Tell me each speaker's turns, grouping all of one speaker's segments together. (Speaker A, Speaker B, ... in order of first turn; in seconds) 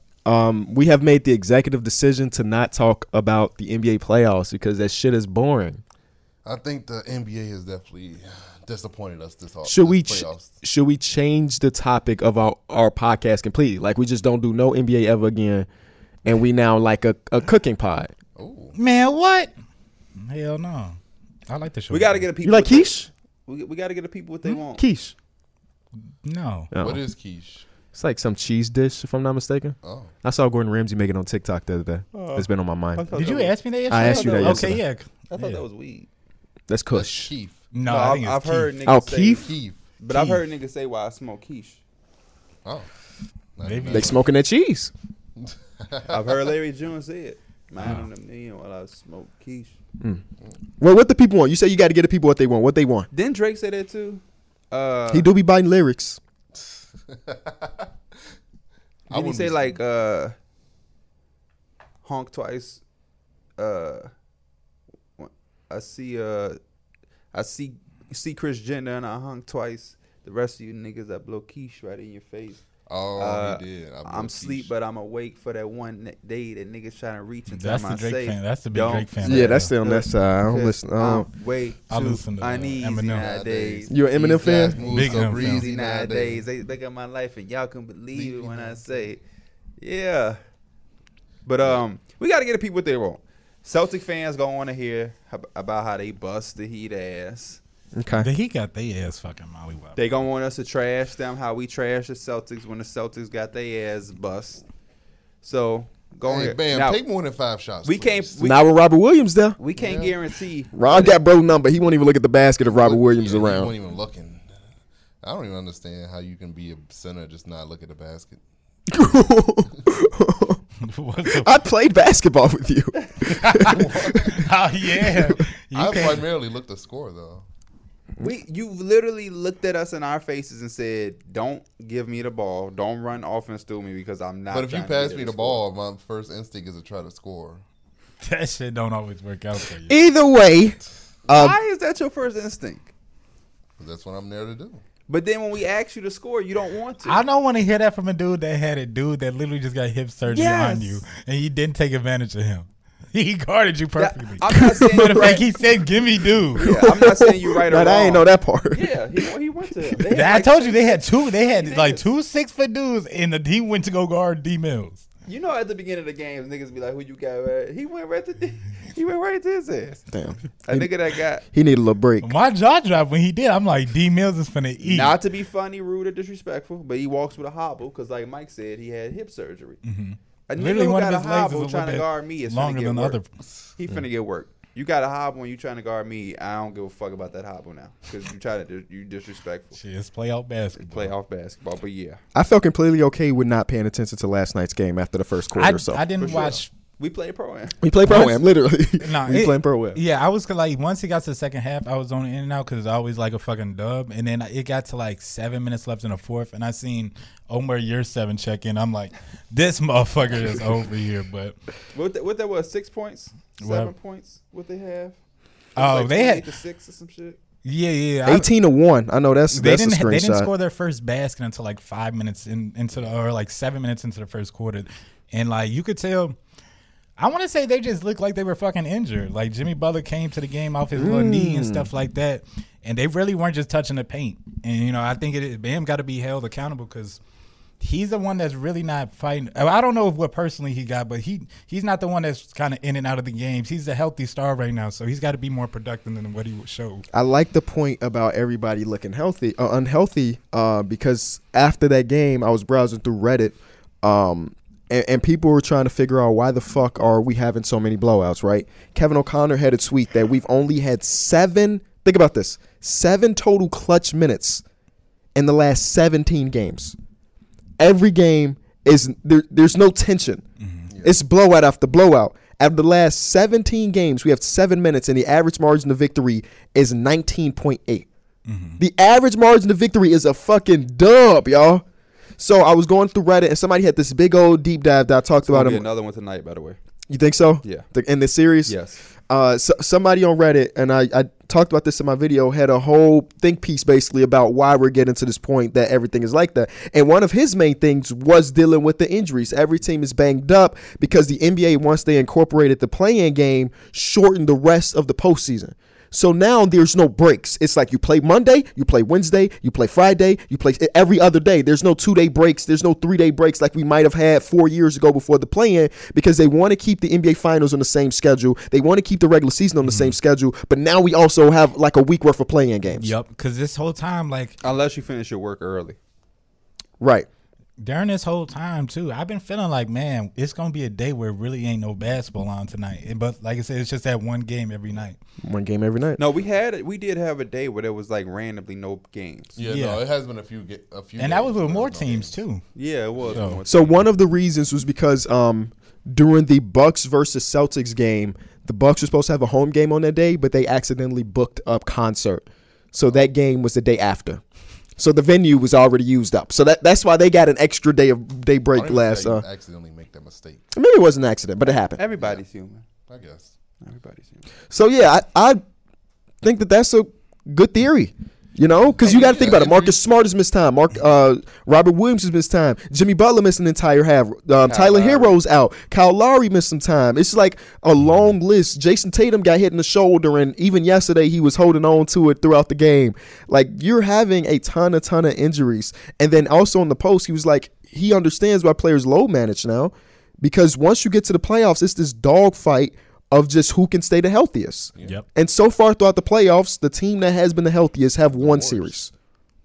Speaker A: 0.2-5.8, 9.6-15.7, 16.2-18.1, 22.4-23.1, 24.8-25.1, 26.7-27.0, 27.9-33.0, 33.9-34.8, 36.7-37.3, 38.8-39.5, 43.9-44.9, 50.8-53.1, 55.1-56.2, 79.2-81.3, 83.9-84.8, 97.9-98.3, 108.4-109.6, 110.7-113.7, 118.9-120.6, 121.2-124.4, 139.9-141.6, 154.5-155.4, 156.6-158.9, 170.1-170.9, 171.5-172.3, 192.3-196.0, 197.8-200.0, 218.2-220.5, 230.9-231.9, 247.1-264.6, 265.3-266.9, 267.8-270.4, 271.0-278.1, 278.8-281.8, 282.4-285.8, 287.1-288.8, 289.3-323.1, 327.0-327.3, 335.4-336.2, 343.7-354.4, 355.0-359.4, 360.7-362.0, 364.7-365.6, 366.4-399.1
Speaker B: 6.4-10.5, 18.4-18.8, 26.8-27.6, 29.8-30.1, 36.9-37.6, 39.3-39.8, 43.5-44.2, 45.8-46.4, 56.6-57.9, 59.1-59.8, 72.9-74.7, 83.2-86.5, 88.1-89.1, 106.3-108.4, 109.8-110.2, 112.7-114.5, 115.2-118.4, 123.6-124.5, 125.7-127.4, 134.5-137.6, 143.8-144.8, 339.6-342.4, 343.3-343.5, 358.8-360.6, 362.2-362.4, 363.1-363.5, 369.2-369.8, 398.3-398.9
Speaker C: 18.7-19.5, 20.2-22.2, 26.2-26.7, 33.1-35.6, 37.7-38.7, 40.1-40.4, 43.6-44.1, 47.8-48.1, 77.5-79.7, 81.9-83.3, 84.9-85.6, 98.2-100.0, 120.8-121.5, 123.2-126.2, 138.2-140.0, 147.0-156.7, 160.1-165.1, 172.2-175.2, 179.8-183.3, 189.7-191.1, 195.6-196.7, 198.0-198.4, 199.0-211.6, 213.6-213.9, 215.8-216.4, 217.6-218.5, 219.5-226.4, 227.2-237.2, 237.8-247.0, 270.6-270.9, 278.4-278.8, 319.8-320.1, 322.9-324.6, 327.8-335.2, 339.6-340.0, 341.2-342.6, 343.3-343.6
Speaker D: 21.9-24.8, 32.1-34.8, 35.3-36.1, 37.8-41.8, 46.1-49.8, 53.1-55.3, 59.1-60.3, 62.0-62.8, 63.6-64.1, 65.2-66.6, 67.3-72.7, 73.2-89.2, 89.8-90.4, 91.5-97.6, 100.0-104.6, 105.4-107.0, 107.8-108.7, 109.6-111.2, 128.2-135.6, 141.3-142.9, 145.1-147.2, 150.3-151.0, 154.0-155.5, 156.5-162.0, 165.2-170.1, 170.6-171.4, 174.8-179.8, 180.5-183.2, 183.8-189.8, 190.8-192.2, 196.2-197.8, 211.9-215.2, 215.7-217.4, 285.4-286.8, 288.6-289.0, 324.6-326.0, 336.2-339.6, 342.7-344.0, 361.7-362.8, 363.8-364.4, 369.0-369.9, 374.6-375.4